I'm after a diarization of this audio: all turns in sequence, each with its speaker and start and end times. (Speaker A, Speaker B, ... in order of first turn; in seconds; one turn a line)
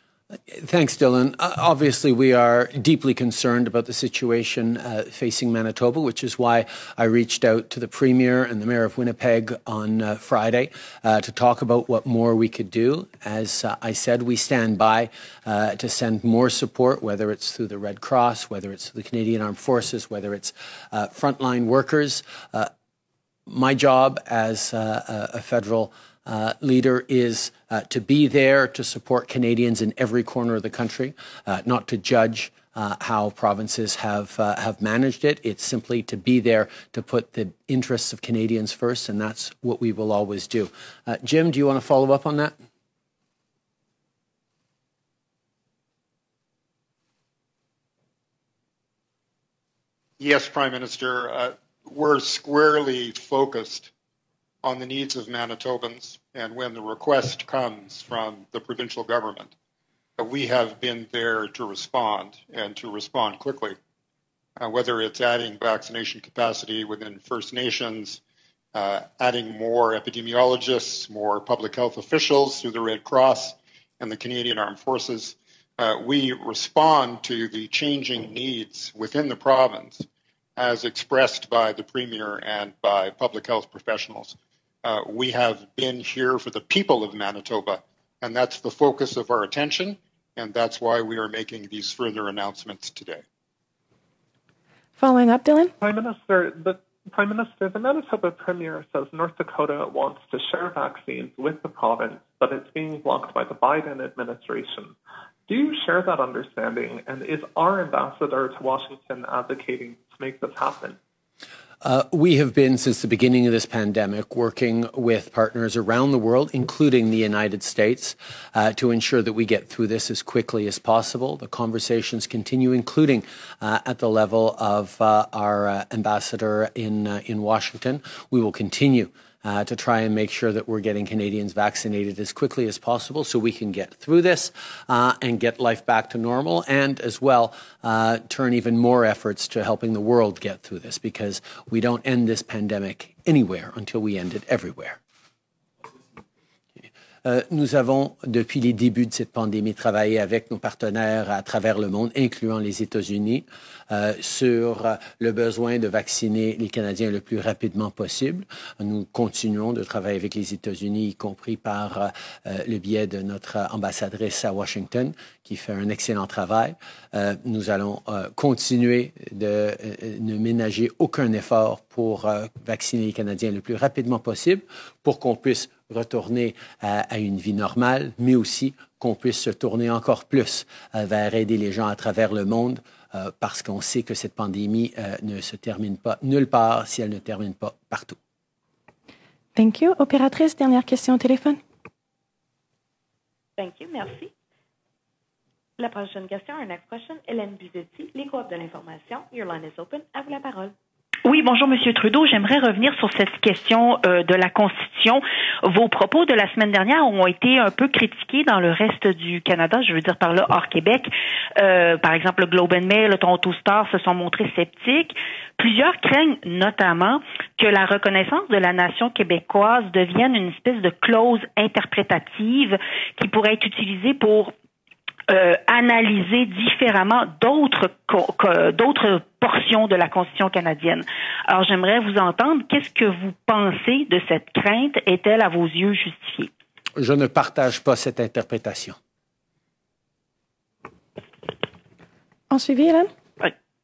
Speaker A: 0.5-22.7
Speaker A: 23.5-42.5
Speaker B: 50.2-53.9
Speaker B: 54.6-59.5
Speaker B: 60.2-63.8
Speaker B: 64.6-68.2
Speaker B: 68.7-80.0
Speaker B: 80.6-93.2
Speaker C: 95.0-95.7
Speaker D: 95.8-105.0
Speaker D: 105.5-111.0
Speaker A: 111.8-145.0
Speaker A: 147.2-188.2
Speaker C: 189.6-191.6
Speaker E: 193.6-194.3
Speaker E: 195.8-200.7
Speaker F: 201.2-224.5
Speaker F: 225.3-236.5
Speaker A: 237.0-239.0
Speaker C: 242.5-243.1